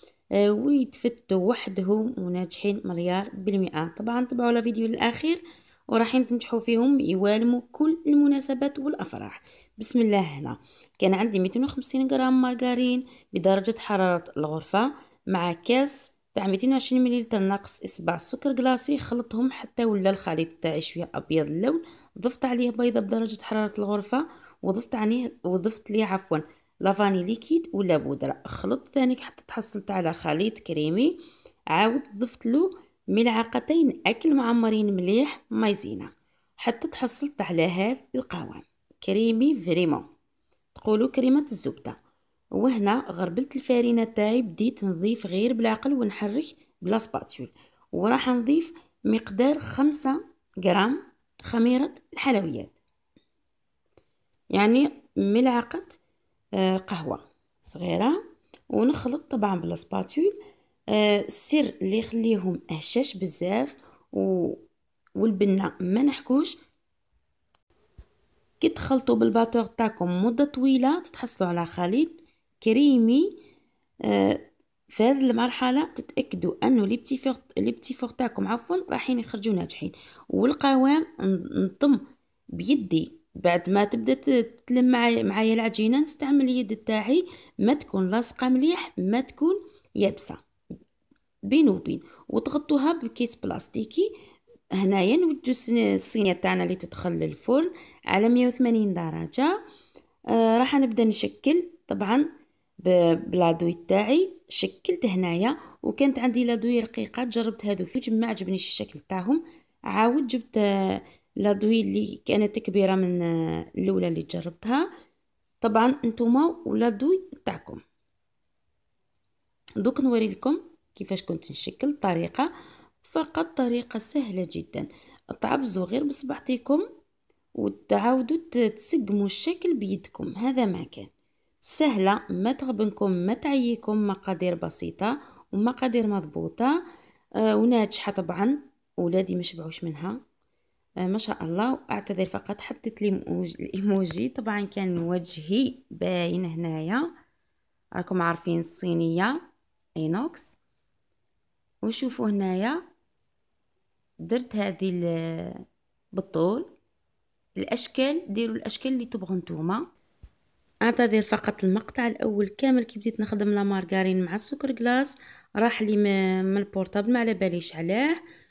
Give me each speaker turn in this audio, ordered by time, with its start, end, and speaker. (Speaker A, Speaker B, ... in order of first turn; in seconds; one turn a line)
Speaker A: 0.4-5.4
Speaker A: 5.9-31.2
Speaker A: 31.7-40.1
Speaker A: 40.8-42.0
Speaker A: 42.5-52.8
Speaker A: 54.5-56.0
Speaker A: 56.6-58.2
Speaker A: 58.7-60.4
Speaker A: 60.9-64.6
Speaker A: 65.2-66.5
Speaker A: 68.6-73.3
Speaker A: 74.0-82.0
Speaker A: 82.5-90.4
Speaker A: 91.5-94.1
Speaker A: 94.7-99.6
Speaker A: 100.3-102.3
Speaker A: 102.8-114.9
Speaker A: 115.6-117.8
Speaker A: 119.8-122.5
Speaker A: 123.0-126.8
Speaker A: 127.6-131.1
Speaker A: 131.6-136.8
Speaker A: 137.4-140.2
Speaker A: 141.0-147.1
Speaker A: 148.0-149.4
Speaker A: 150.0-150.6
Speaker A: 151.8-152.8
Speaker A: 154.3-155.6
Speaker A: 156.2-156.7
Speaker A: 157.6-159.8
Speaker A: 160.8-168.2